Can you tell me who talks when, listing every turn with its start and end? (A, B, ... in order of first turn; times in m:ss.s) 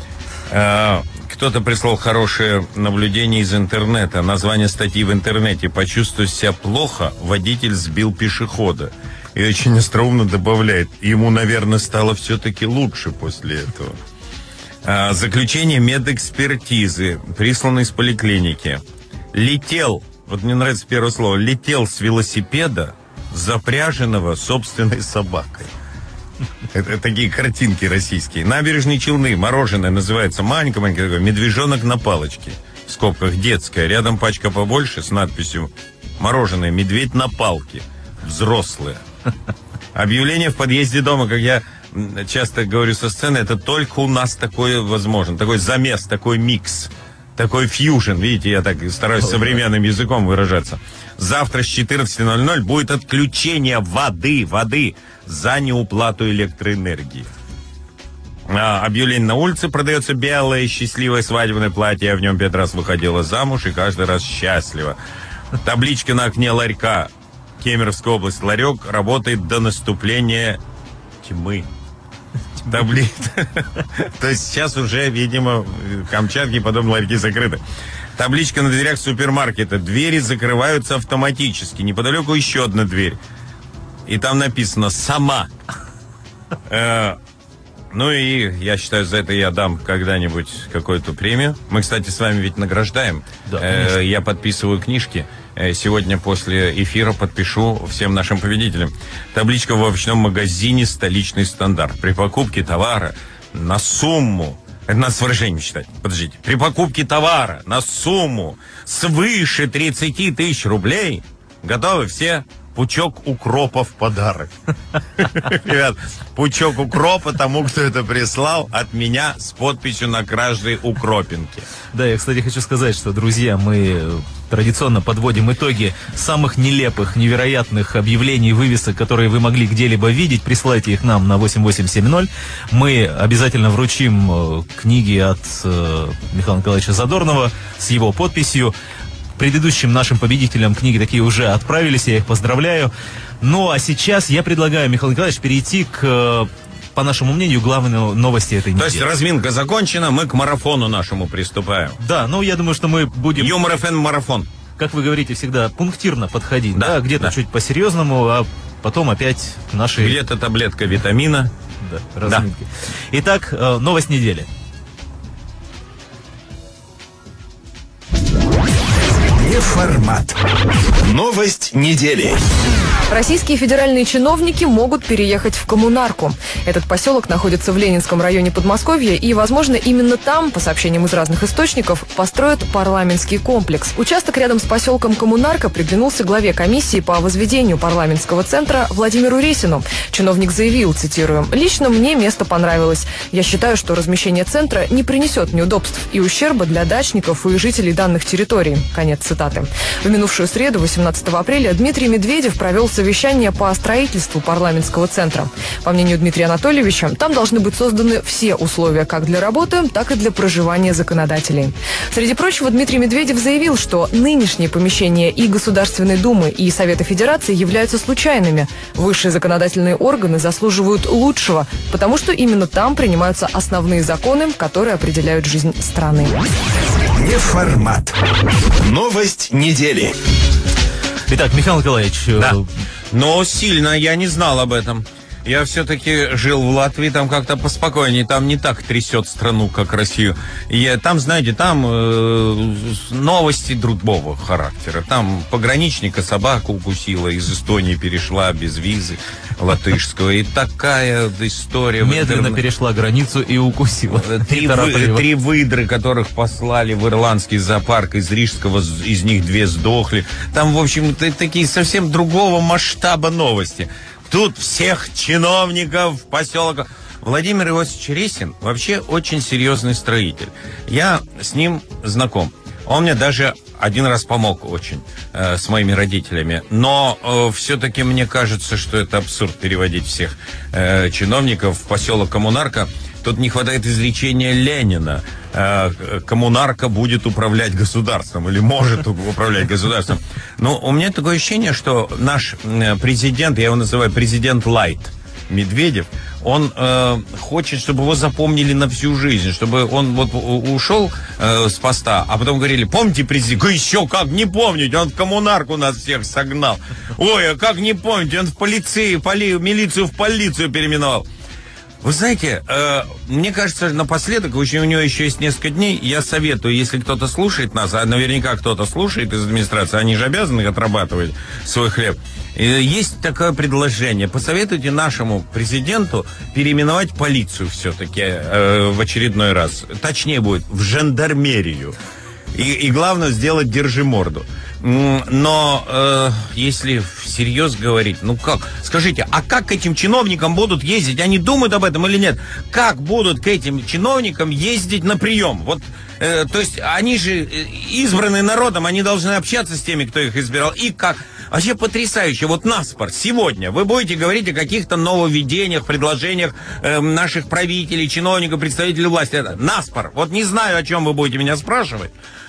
0:00.5-0:14.0 A
0:14.8-0:25.7 A
0:26.7-0:39.0 A
0:39.9-0:57.3 A
0:58.5-1:05.0 A
1:05.6-1:10.6 A
1:11.2-1:11.7 A
1:12.6-1:17.6 A
1:18.2-1:23.2 A
1:24.1-1:25.5 A
1:26.7-1:27.2 A
1:27.9-1:54.5 A
1:33.5-1:33.9 B
1:55.2-2:01.7 A
2:01.9-2:18.7 B
2:19.4-2:22.9 B
2:23.4-2:29.1 B
2:28.8-2:32.0 A
2:32.0-2:33.6 B
2:33.4-2:34.5 A
2:34.8-2:40.2 B
2:36.7-2:37.3 A
2:40.0-2:41.5 A
2:41.8-2:44.5 B
2:49.3-2:50.4 C
2:50.9-2:52.4 C
2:53.1-3:46.4 D
3:47.1-3:48.1 C
3:48.8-3:50.2 C
3:51.3-3:52.7 B
3:53.1-4:12.6 A
4:12.0-4:15.3 B
4:14.1-5:11.3 A
5:12.0-5:32.0 A
5:32.5-6:02.1 A